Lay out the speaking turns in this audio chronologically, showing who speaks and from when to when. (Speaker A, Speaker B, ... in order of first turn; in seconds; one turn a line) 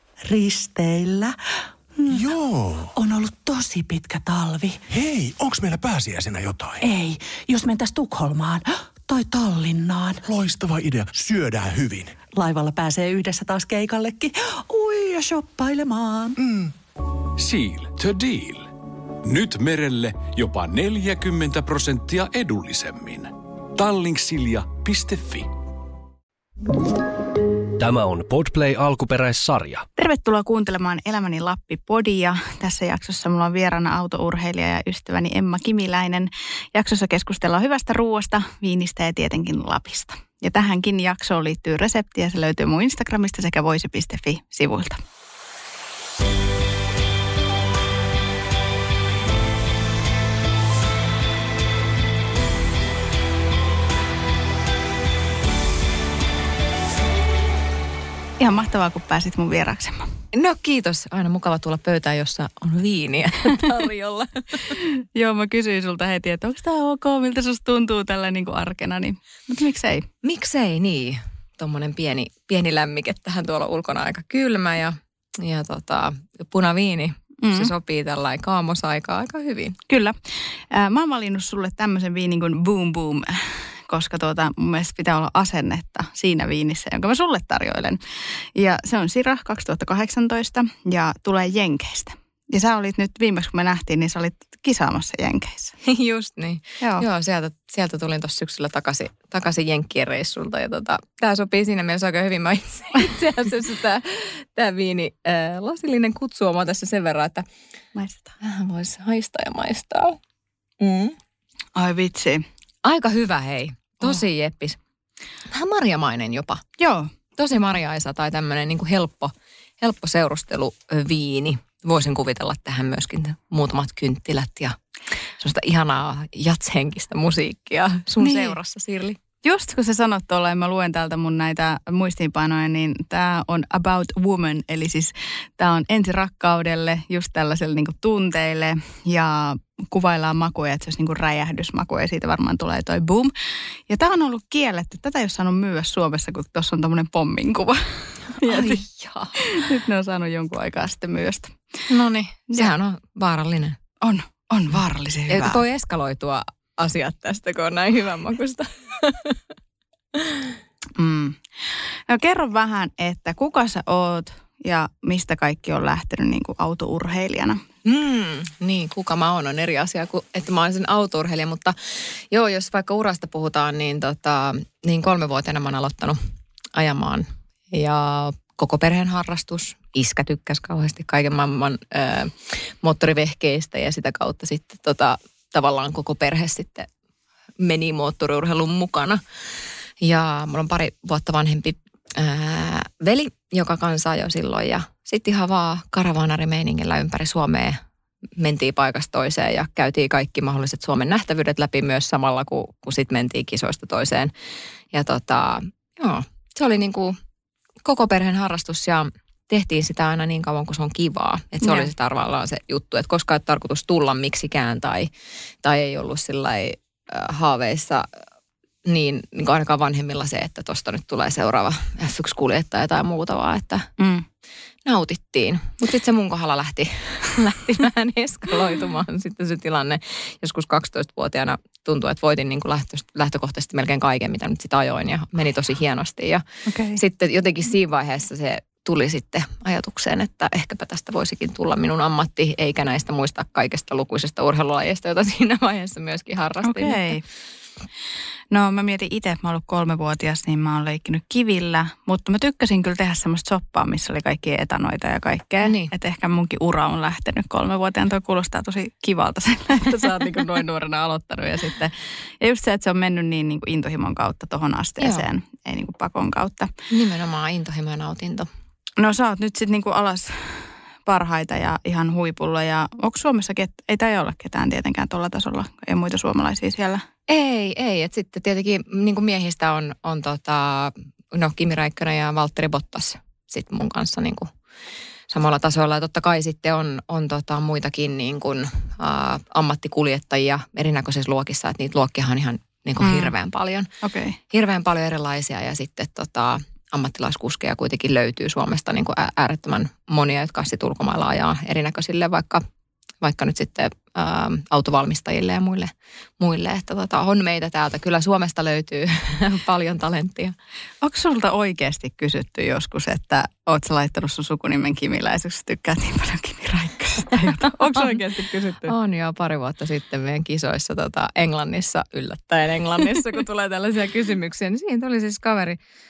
Speaker A: 0.2-1.4
Speaker A: 2.0-2.3
Speaker B: 2.1-2.9
Speaker A: 2.9-4.8
Speaker B: 4.9-6.8
Speaker A: 6.8-10.2
Speaker B: 10.3-12.2
Speaker A: 12.3-16.4
Speaker B: 16.4-16.7
Speaker C: 17.4-18.7
Speaker C: 19.2-25.5
Speaker D: 27.8-29.9
Speaker E: 30.0-45.0
Speaker E: 58.4-60.1
Speaker F: 60.3-64.8
Speaker E: 64.8-70.1
Speaker F: 70.2-79.8
Speaker E: 77.4-77.7
Speaker E: 79.9-80.2
Speaker E: 80.7-95.8
Speaker F: 95.8-107.5
Speaker E: 108.0-108.3
Speaker F: 108.4-110.2
Speaker F: 110.8-111.2
Speaker E: 111.8-112.5
Speaker F: 112.8-114.8
Speaker F: 115.5-116.6
Speaker E: 116.8-117.1
Speaker F: 117.4-124.8
Speaker F: 125.4-129.2
Speaker E: 128.2-128.6
Speaker E: 129.4-143.3
Speaker E: 143.9-148.8
Speaker F: 148.4-149.4
Speaker E: 149.4-151.6
Speaker F: 151.9-153.8
Speaker E: 154.0-155.6
Speaker F: 155.3-159.4
Speaker F: 160.2-160.5
Speaker E: 161.0-167.6
Speaker F: 167.8-176.2
Speaker F: 176.8-186.9
Speaker F: 187.6-189.2
Speaker F: 190.0-197.8
Speaker F: 198.4-204.3
Speaker F: 204.9-207.2
Speaker F: 207.8-215.1
Speaker E: 211.6-211.9
Speaker F: 215.6-218.1
Speaker F: 218.9-223.9
Speaker E: 224.0-224.2
Speaker F: 224.9-236.4
Speaker E: 236.7-237.0
Speaker F: 237.0-247.2
Speaker E: 246.6-247.2
Speaker E: 248.5-266.7
Speaker F: 255.6-255.9
Speaker F: 265.0-265.2
Speaker F: 266.9-268.5
Speaker E: 269.0-277.0
Speaker F: 277.3-284.5
Speaker F: 285.3-293.9
Speaker E: 293.0-293.3
Speaker E: 294.0-294.4
Speaker F: 294.5-302.6
Speaker F: 303.2-310.6
Speaker E: 311.0-318.9
Speaker F: 317.6-318.1
Speaker F: 318.9-325.8